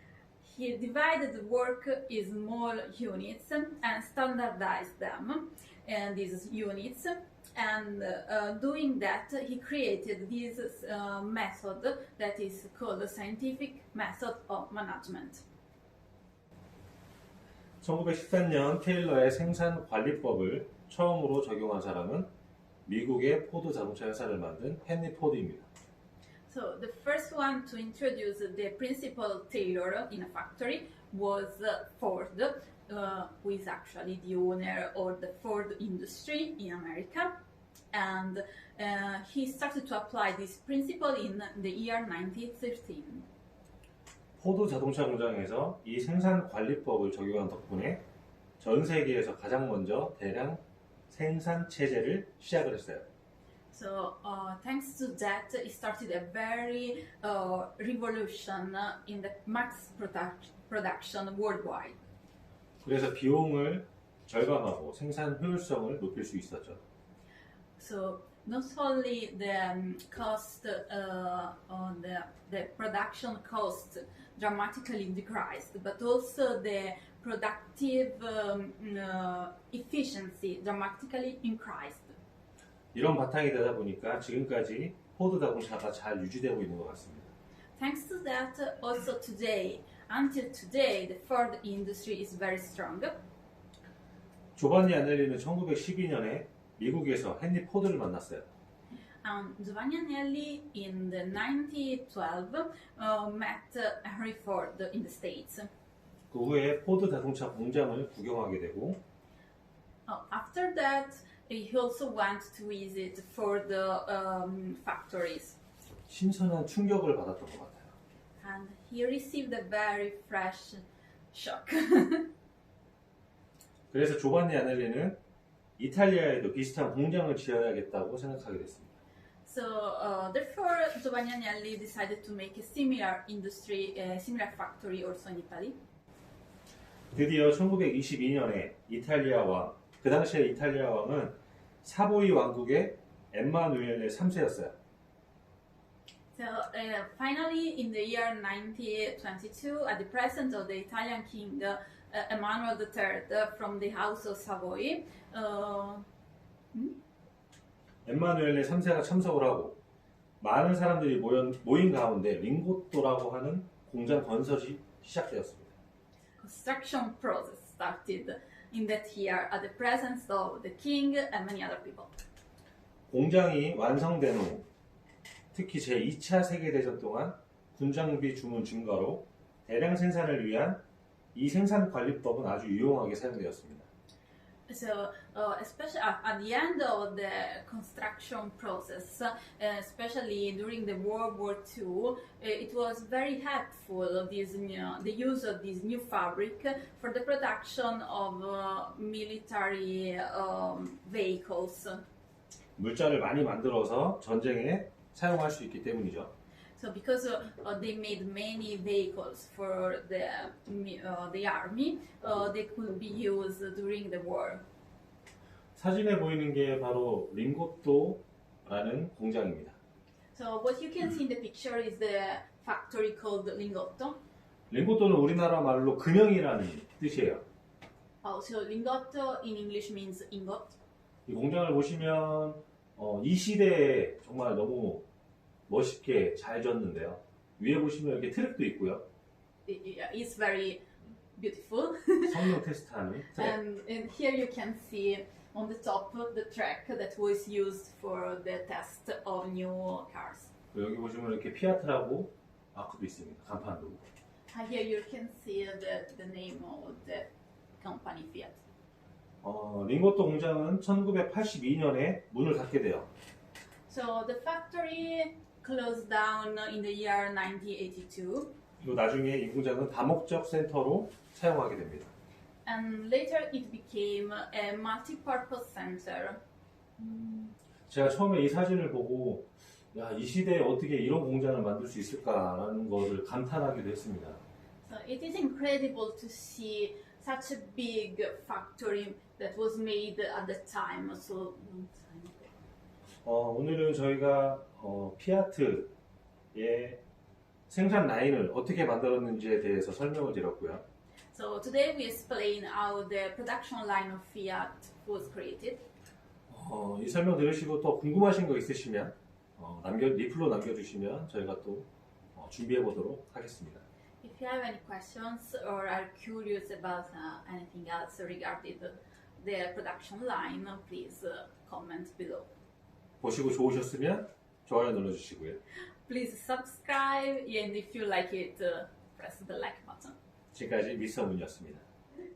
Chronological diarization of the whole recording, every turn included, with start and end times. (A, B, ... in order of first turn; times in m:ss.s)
0:00.4-0:15.4 A
0:17.8-0:22.3 B
0:22.8-0:25.7 B
0:26.5-0:37.3 A
0:37.9-0:43.2 A
0:44.4-0:48.0 B
0:48.6-0:53.0 B
0:53.7-1:02.0 A
1:02.8-1:06.8 B
1:07.8-1:22.2 A
1:22.9-1:27.3 B
1:27.8-1:33.2 A
1:34.6-1:38.5 B
1:39.2-1:45.7 A
1:46.3-1:49.0 B
1:50.0-1:55.6 A
1:56.1-1:57.9 B
1:58.4-2:02.3 A
2:03.9-2:05.2 B
2:05.8-2:08.9 B
2:09.4-2:15.8 A
2:17.1-2:24.7 B
2:26.3-2:36.0 A
2:38.0-2:39.8 B
2:40.4-2:45.7 B
2:46.4-2:52.1 A
2:53.1-2:54.7 B
2:55.5-3:00.8 B
3:01.3-3:03.9 B
3:04.7-3:22.0 A
3:22.8-3:26.3 B
3:26.8-3:34.6 A
3:35.8-3:39.8 B
3:40.3-3:44.2 A
3:44.7-3:47.4 B
3:48.2-3:50.8 A
3:51.3-3:55.0 B
3:55.7-3:59.0 B
3:59.7-4:00.8 A
4:01.4-4:02.6 A
4:02.3-4:03.6 B
4:03.4-4:10.5 A
4:10.7-4:14.0 B
4:14.5-4:17.3 A
4:17.8-4:18.6 A
4:19.4-4:23.1 B
4:23.9-4:28.5 A
4:28.8-4:32.1 B
4:32.6-4:36.4 A
4:37.0-4:44.4 B
4:44.8-4:52.5 A
4:53.2-4:55.9 B
4:56.5-4:57.0 B
4:57.7-5:00.8 B
5:01.3-5:05.8 A
5:06.5-5:13.8 B
5:14.2-5:22.5 A
5:23.2-5:25.6 B
5:26.0-5:30.2 A
5:30.5-5:31.8 B